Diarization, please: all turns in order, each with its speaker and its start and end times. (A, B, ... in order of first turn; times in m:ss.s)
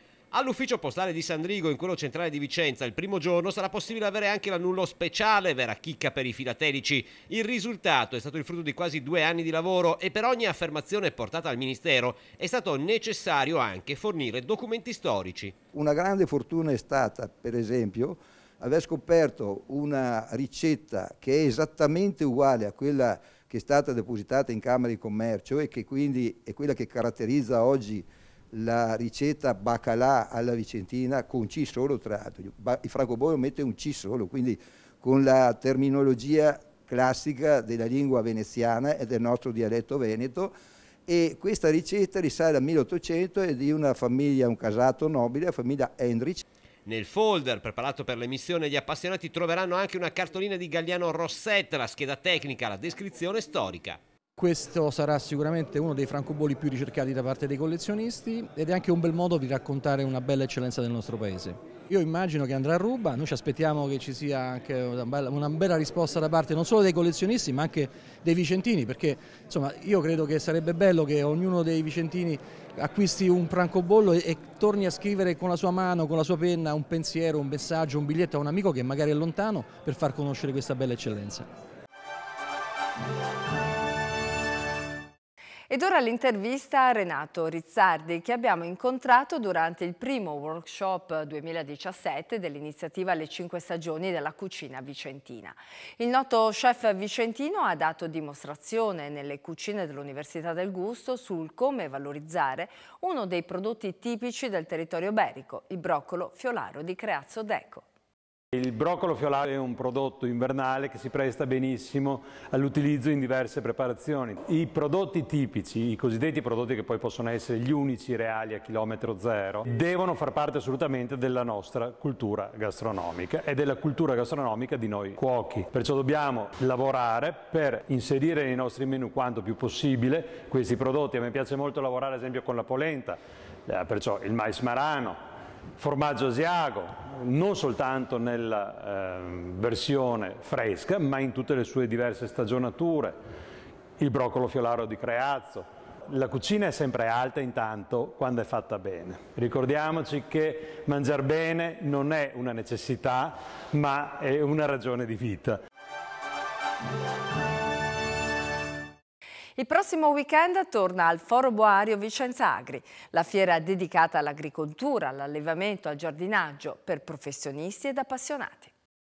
0:00.3-0:15.5 A
0:15.7-0:40.5 B
0:41.0-0:46.4 B
0:46.8-0:54.0 A
0:54.4-1:21.4 C
1:25.7-1:47.8 D
1:48.5-2:15.2 E
2:15.8-2:23.1 E
2:24.0-2:35.6 E
2:39.6-2:48.7 D